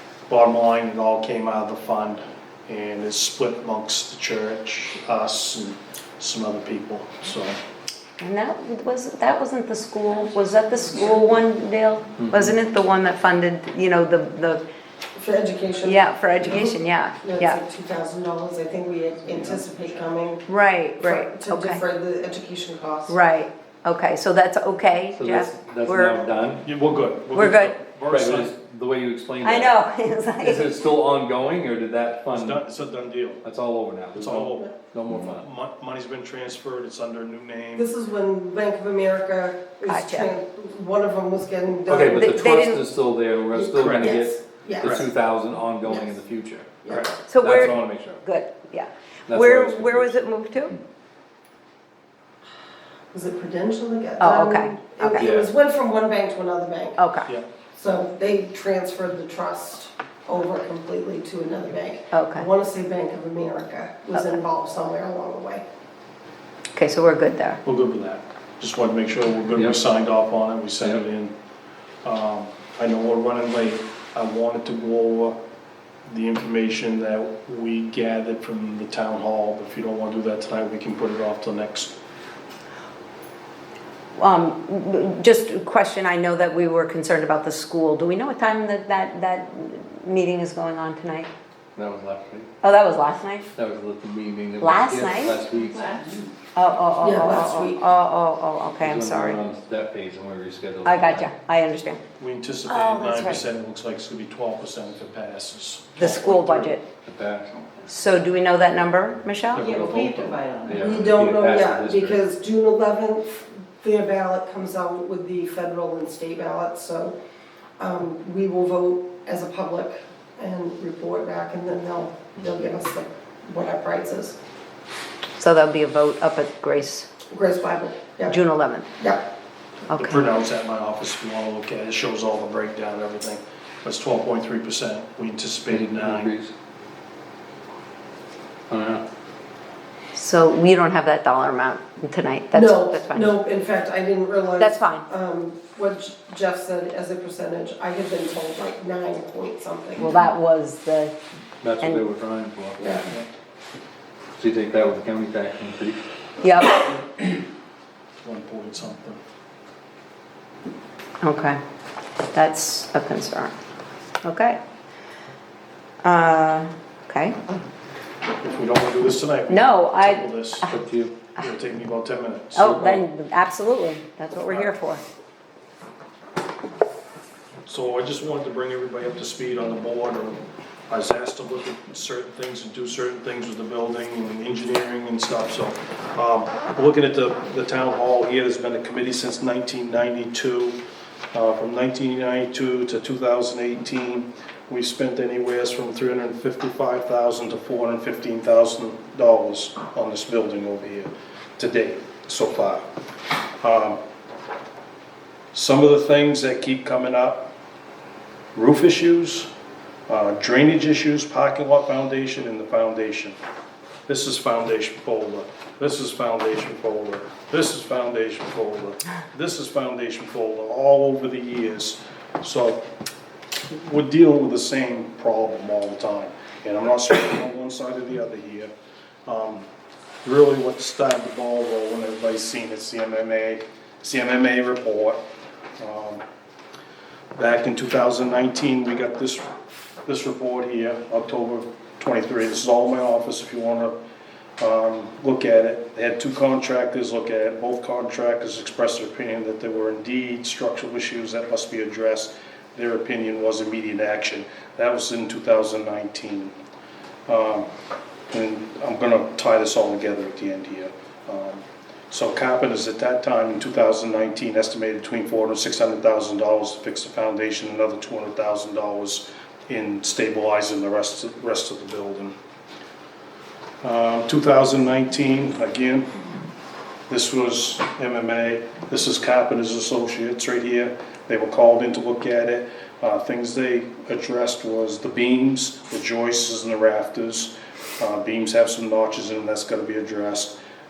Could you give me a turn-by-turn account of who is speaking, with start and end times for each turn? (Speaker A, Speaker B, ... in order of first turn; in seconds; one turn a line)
Speaker A: 0.3-7.6
Speaker B: 8.2-14.6
Speaker C: 12.2-12.5
Speaker D: 15.1-20.4
Speaker B: 15.8-17.6
Speaker B: 20.5-21.8
Speaker D: 21.0-23.1
Speaker B: 23.1-26.2
Speaker C: 25.1-26.6
Speaker A: 26.6-28.5
Speaker B: 27.3-27.8
Speaker C: 28.1-29.7
Speaker B: 29.4-30.9
Speaker C: 30.4-32.6
Speaker A: 32.3-33.4
Speaker C: 33.4-35.5
Speaker A: 34.1-37.9
Speaker D: 37.8-42.5
Speaker B: 39.9-40.3
Speaker C: 41.9-46.8
Speaker B: 42.1-42.8
Speaker D: 43.5-45.2
Speaker A: 43.8-44.1
Speaker A: 44.8-45.1
Speaker D: 45.8-46.2
Speaker D: 46.8-47.1
Speaker A: 46.9-47.5
Speaker B: 47.3-50.8
Speaker C: 47.4-48.2
Speaker C: 49.3-50.1
Speaker D: 53.1-57.0
Speaker B: 54.2-55.3
Speaker C: 55.2-55.5
Speaker B: 57.0-57.3
Speaker D: 57.7-65.6
Speaker B: 62.1-62.5
Speaker B: 64.1-64.4
Speaker B: 66.7-67.6
Speaker A: 67.6-71.3
Speaker A: 72.0-75.4
Speaker A: 76.1-81.9
Speaker B: 84.2-91.3
Speaker C: 91.8-92.5
Speaker B: 92.6-93.5
Speaker C: 93.5-95.9
Speaker B: 94.6-95.4
Speaker E: 95.8-96.3
Speaker B: 96.5-99.4
Speaker D: 97.0-97.8
Speaker C: 98.8-101.3
Speaker B: 100.8-102.0
Speaker A: 102.2-106.7
Speaker B: 102.6-103.4
Speaker B: 106.0-106.8
Speaker C: 107.0-107.5
Speaker B: 107.9-109.7
Speaker A: 109.5-110.4
Speaker E: 109.5-111.0
Speaker C: 110.7-112.2
Speaker D: 110.7-117.2
Speaker D: 117.8-124.4
Speaker B: 125.4-127.1
Speaker D: 127.3-128.4
Speaker B: 128.3-128.8
Speaker D: 129.0-129.2
Speaker B: 129.9-130.2
Speaker A: 129.9-136.3
Speaker C: 135.7-136.5
Speaker C: 138.7-139.0
Speaker B: 140.1-143.3
Speaker D: 142.5-150.1
Speaker B: 144.6-145.1
Speaker B: 150.0-151.1
Speaker C: 151.6-152.8
Speaker D: 152.8-153.1
Speaker C: 154.4-156.0
Speaker B: 156.4-156.8
Speaker A: 158.2-159.2
Speaker B: 161.2-161.6
Speaker B: 162.3-163.5
Speaker B: 164.2-164.6
Speaker B: 166.0-167.4
Speaker A: 168.4-170.7
Speaker B: 169.5-170.7
Speaker C: 170.7-171.1
Speaker A: 171.4-172.8
Speaker B: 172.6-175.0
Speaker C: 172.7-173.0
Speaker A: 174.4-174.7
Speaker A: 177.7-190.8
Speaker A: 191.3-202.8
Speaker A: 203.6-204.0
Speaker A: 205.5-207.5
Speaker A: 208.5-209.5
Speaker A: 210.1-213.4
Speaker A: 214.1-222.8
Speaker A: 223.7-228.7
Speaker A: 229.2-229.7
Speaker A: 230.2-235.2
Speaker A: 235.8-236.2
Speaker A: 237.3-239.5
Speaker A: 240.0-243.9
Speaker A: 244.6-256.5
Speaker A: 257.3-257.7
Speaker A: 258.3-272.3
Speaker A: 273.8-276.1
Speaker A: 277.1-290.5